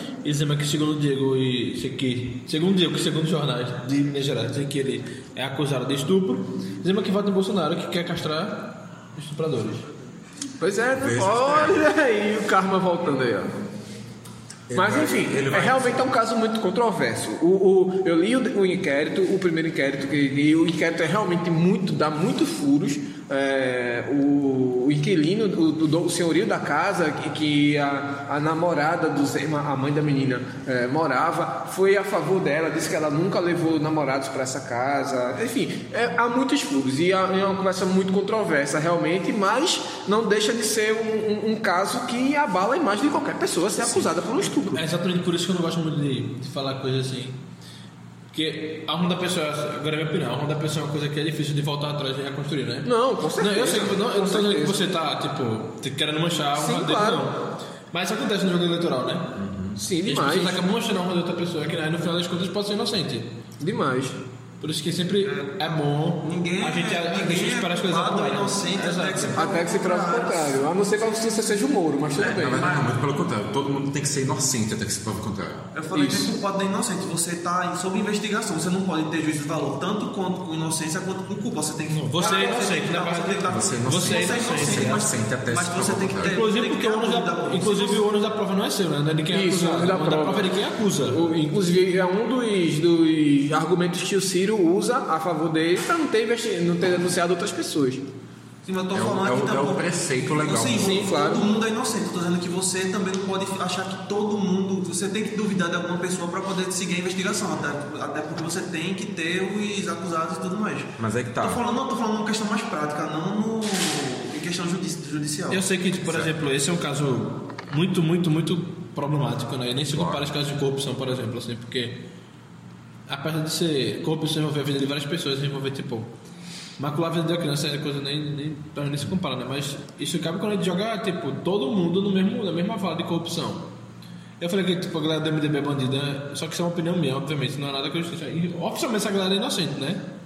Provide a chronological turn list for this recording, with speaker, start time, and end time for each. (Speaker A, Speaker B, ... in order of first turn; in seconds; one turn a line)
Speaker A: 0.2-9.8
Speaker B: 10.6-13.5
Speaker C: 10.9-11.9
Speaker C: 14.7-16.1
Speaker B: 14.7-44.8
Speaker C: 43.8-44.1
Speaker A: 44.7-47.4
Speaker A: 48.3-59.4
Speaker B: 52.8-54.8
Speaker B: 56.5-57.3
Speaker C: 59.3-59.8
Speaker B: 59.8-60.6
Speaker A: 60.0-63.3
Speaker B: 63.6-64.2
Speaker A: 64.6-69.5
Speaker D: 65.2-70.6
Speaker B: 69.3-72.8
Speaker C: 72.2-75.7
Speaker D: 75.7-88.0
Speaker B: 75.9-76.3
Speaker A: 81.9-85.0
Speaker C: 83.5-86.4
Speaker A: 86.2-91.2
Speaker B: 89.3-90.5
Speaker B: 91.1-98.0
Speaker D: 98.6-115.6
Speaker C: 98.9-101.0
Speaker B: 100.7-101.5
Speaker C: 111.0-111.6
Speaker A: 115.5-122.0
Speaker C: 116.0-116.3
Speaker C: 119.9-120.3
Speaker A: 123.1-126.1
Speaker A: 126.8-133.7
Speaker A: 134.4-140.1